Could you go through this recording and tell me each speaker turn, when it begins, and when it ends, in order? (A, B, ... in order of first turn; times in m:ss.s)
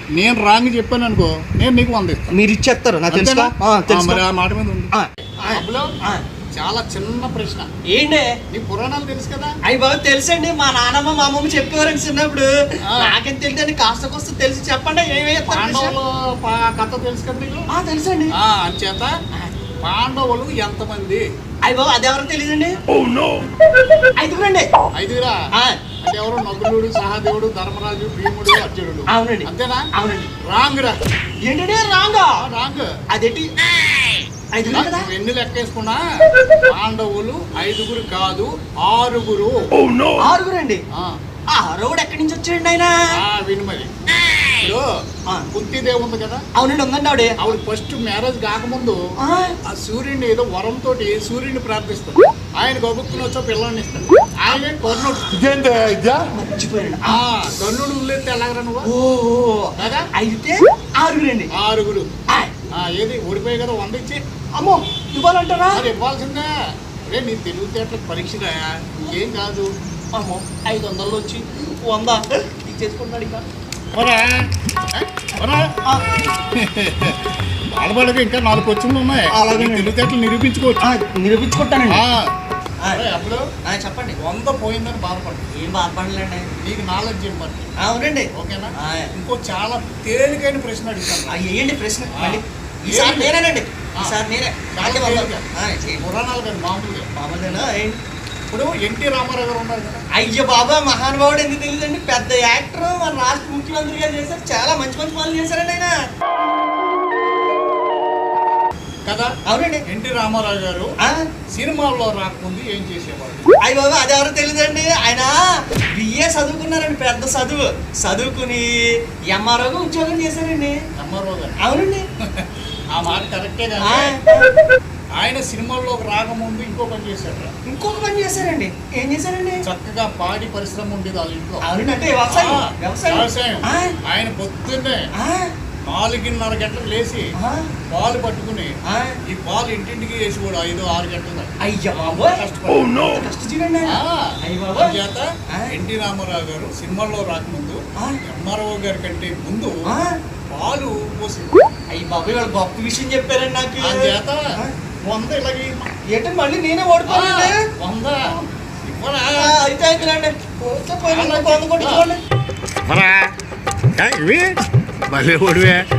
0:00.2-0:02.3 A
0:02.3-0:04.2 B
0:03.1-0:04.9 A
0:04.9-0:06.2 B
0:05.5-0:05.9 A
0:06.5-0:07.7 A
0:07.9-0:08.3 B
0:08.5-0:09.6 A
0:09.6-0:15.9 B
0:15.5-0:17.7 A
0:17.7-0:18.3 B
0:18.4-0:19.1 A
0:19.8-0:21.2 A
0:21.6-0:22.8 B
0:24.2-0:24.7 B
0:25.0-0:25.4 A
0:26.0-0:29.9 A
0:29.1-0:30.3 B
0:30.4-0:31.0 A
0:31.4-0:32.4 B
0:32.4-0:32.9 A
0:33.1-0:33.5 B
0:34.5-0:35.1 B
0:34.6-0:36.0 A
0:36.7-0:39.7 A
0:40.2-0:40.8 B
0:41.5-0:43.0 B
0:43.2-0:43.9 A
0:44.6-0:44.9 A
0:45.5-0:46.4 A
0:46.5-0:47.4 B
0:47.4-0:49.0 A
0:49.2-0:49.5 B
0:49.7-0:56.3 A
0:56.3-0:57.2 B
0:57.1-0:58.9 A
0:58.8-1:01.5 B
0:59.8-1:00.1 A
1:01.6-1:02.1 A
1:02.7-1:04.2 A
1:04.6-1:05.8 B
1:05.7-1:06.5 A
1:07.1-1:09.7 A
1:10.1-1:13.4 B
1:13.9-1:20.8 A
1:19.3-1:19.9 B
1:20.8-1:22.0 B
1:21.9-1:22.3 A
1:22.9-1:23.5 A
1:23.6-1:24.2 B
1:24.2-1:25.5 A
1:25.5-1:26.5 B
1:26.6-1:27.7 A
1:27.8-1:29.1 B
1:28.3-1:31.4 A
1:31.3-1:36.0 B
1:32.1-1:33.4 A
1:34.8-1:35.4 A
1:36.0-1:37.6 A
1:37.1-1:38.0 B
1:38.5-1:40.0 A
1:40.1-1:45.9 B
1:49.1-1:49.3 A
1:49.4-1:49.8 B
1:49.9-1:50.9 A
1:51.5-1:53.5 A
1:53.6-1:55.4 B
1:55.9-1:58.7 B
1:59.3-2:00.8 B
2:01.0-2:01.6 A
2:01.6-2:02.0 B
2:02.4-2:04.1 A
2:03.8-2:04.5 B
2:05.2-2:07.5 A
2:07.7-2:09.6 B
2:09.6-2:11.6 A
2:11.6-2:13.9 B
2:12.3-2:15.0 A
2:15.2-2:15.5 B
2:15.8-2:17.3 A
2:17.4-2:17.6 B
2:17.9-2:18.7 A
2:18.8-2:19.2 B
2:19.2-2:22.9 A
2:21.6-2:25.0 B
2:23.9-2:29.8 A
2:29.9-2:30.1 B
2:30.5-2:31.6 A
2:31.9-2:34.8 B
2:33.8-2:34.4 A
2:35.0-2:35.9 A
2:36.1-2:37.5 B
2:37.1-2:38.2 A
2:38.8-2:39.6 A
2:39.4-2:42.2 B
2:41.1-2:42.0 A
2:42.8-2:43.3 A
2:43.9-2:44.5 A
2:45.1-2:45.8 A